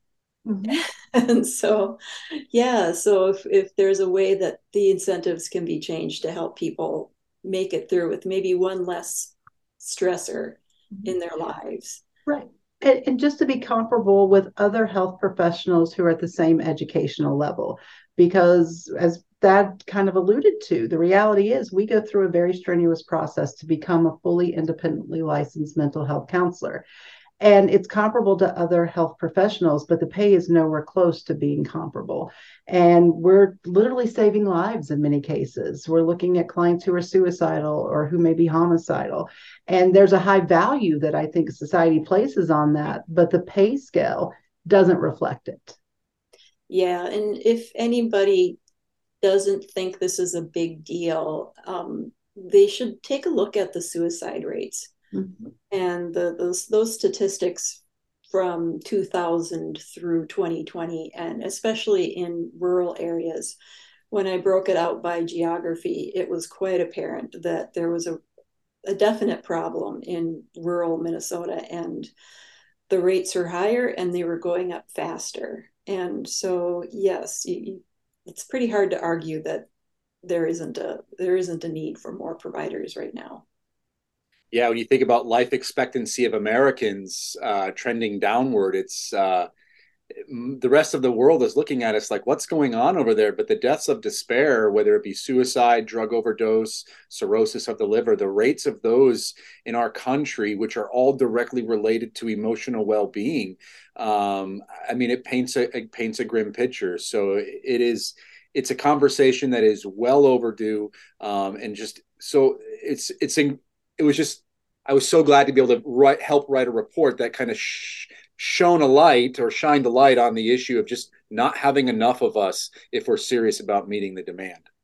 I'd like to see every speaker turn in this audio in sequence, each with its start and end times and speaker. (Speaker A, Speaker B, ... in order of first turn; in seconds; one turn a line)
Speaker A: 0.5-0.8
Speaker B: 0.7-12.0
Speaker A: 12.3-26.8
Speaker A: 27.4-45.8
Speaker B: 46.7-48.6
Speaker B: 49.2-54.9
Speaker A: 55.1-55.4
Speaker B: 55.7-63.5
Speaker B: 64.1-68.2
Speaker B: 68.8-72.1
Speaker B: 72.9-79.7
Speaker B: 80.2-83.4
Speaker C: 84.5-89.5
Speaker C: 90.3-124.6